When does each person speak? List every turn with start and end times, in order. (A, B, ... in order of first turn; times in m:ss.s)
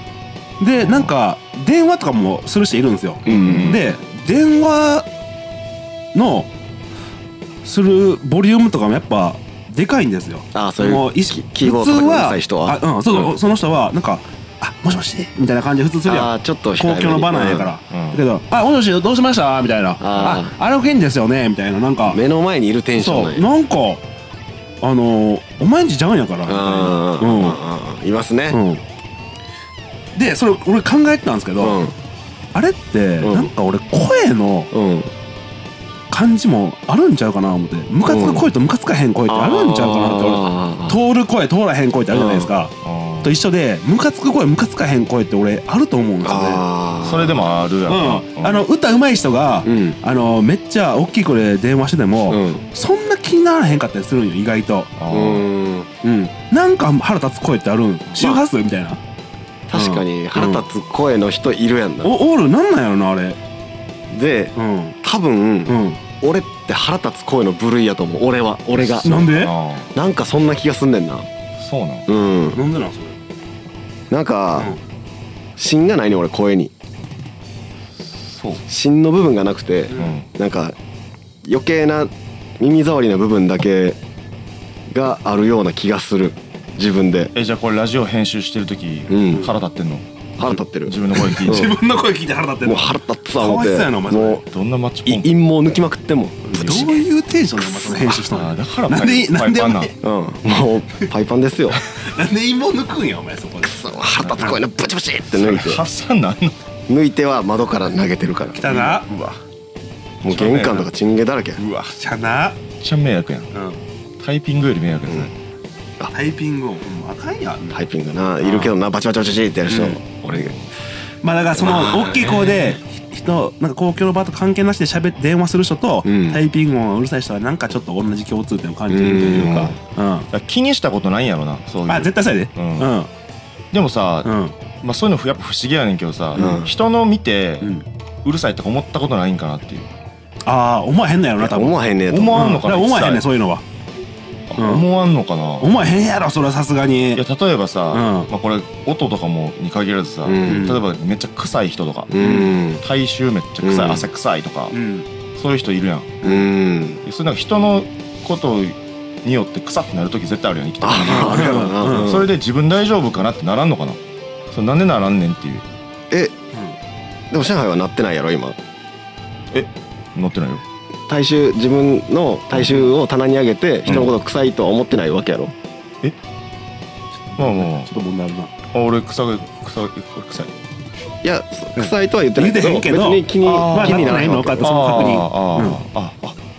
0:00.6-0:05.1 A
0:00.8-0:01.1 B
0:03.2-0:03.7 C
0:03.2-0:03.8 B
0:06.1-0:06.5 A
0:07.6-0:22.2 A
0:10.5-0:12.8 C
0:16.0-0:17.8 C
0:17.9-0:18.2 B
0:20.0-0:20.5 C
0:22.1-0:23.4 C
0:23.0-0:24.0 A
0:24.8-0:27.6 A
0:26.4-0:28.6 C
0:28.5-0:28.8 A
0:30.1-0:31.8 A
0:31.6-0:31.9 C
0:32.5-0:34.7 A
0:33.2-0:33.5 C
0:34.7-0:35.1 C
0:36.1-0:46.6 A
0:38.1-0:38.5 C
0:39.3-0:41.0 C
0:42.1-0:42.5 C
0:42.8-0:43.4 B
0:46.2-0:47.4 C
0:47.0-0:48.6 B
0:47.9-0:54.9 A
0:49.6-0:50.0 C
0:52.3-0:52.6 C
0:55.0-0:55.4 B
0:55.1-0:55.9 C
0:56.0-0:59.0 A
0:58.2-0:58.4 C
0:59.7-1:02.1 C
0:59.7-1:00.6 A
1:02.0-1:03.4 A
1:04.1-1:09.2 C
1:04.6-1:05.0 A
1:05.7-1:06.0 A
1:08.8-1:09.9 B
1:09.0-1:09.5 A
1:09.9-1:11.3 C
1:11.6-1:12.1 B
1:12.1-1:12.6 C
1:12.5-1:13.2 A
1:14.1-1:14.7 C
1:15.6-1:16.7 C
1:18.0-1:18.6 B
1:18.6-1:20.8 C
1:19.9-1:20.3 B
1:21.4-1:24.0 C
1:24.9-1:27.3 C
1:27.3-1:31.7 B
1:29.1-1:29.5 C
1:30.4-1:31.7 C
1:31.2-1:34.4 A
1:32.6-1:34.4 C
1:34.4-1:35.4 B
1:35.0-1:36.9 C
1:36.5-1:39.9 A
1:36.6-1:37.0 B
1:37.6-1:38.1 C
1:38.3-1:39.9 B
1:40.0-1:41.8 C
1:42.0-1:43.8 A
1:43.6-1:45.8 C
1:45.3-1:46.5 B
1:46.9-1:48.6 C
1:48.5-1:49.1 A
1:48.6-1:49.4 B
1:50.2-1:51.6 C
1:50.3-1:50.8 B
1:51.6-1:52.0 B
1:52.0-1:52.6 A
1:52.8-1:53.5 B
1:53.5-1:53.8 A
1:54.2-1:55.3 B
1:56.1-1:57.8 A
1:57.7-2:00.5 C
1:58.4-1:58.7 A
1:59.7-2:00.0 A
2:00.3-2:00.7 B
2:01.2-2:10.3 A
2:01.6-2:02.6 C
2:06.0-2:06.4 C
2:08.9-2:09.7 C
2:09.4-2:09.6 B
2:10.3-2:12.9 B
2:11.9-2:13.1 A
2:13.7-2:14.3 B
2:14.2-2:14.5 A
2:14.8-2:19.9 B
2:16.4-2:16.7 C
2:20.4-2:21.8 A
2:21.4-2:22.5 C
2:22.1-2:23.2 B
2:22.3-2:23.6 A
2:24.5-2:25.7 B
2:24.6-2:24.8 A
2:25.6-2:27.2 A
2:27.1-2:32.3 B
2:27.9-2:28.3 A
2:30.2-2:30.7 C
2:30.4-2:30.8 A
2:32.1-2:32.8 C
2:32.2-2:32.5 A
2:32.8-2:34.8 B
2:33.6-2:34.1 C
2:34.7-2:35.1 A
2:35.3-2:36.4 B
2:36.2-2:37.0 C
2:37.0-2:44.0 B
2:40.8-2:42.3 C
2:41.0-2:42.1 A
2:44.5-2:45.6 B
2:47.3-2:48.6 C
2:49.5-2:50.6 B
2:51.1-2:55.5 C
2:53.9-2:54.1 B
2:57.3-2:58.5 A
2:57.4-2:57.9 B
2:58.7-3:00.5 B
3:01.2-3:05.1 C
3:02.4-3:05.8 A
3:03.4-3:06.4 B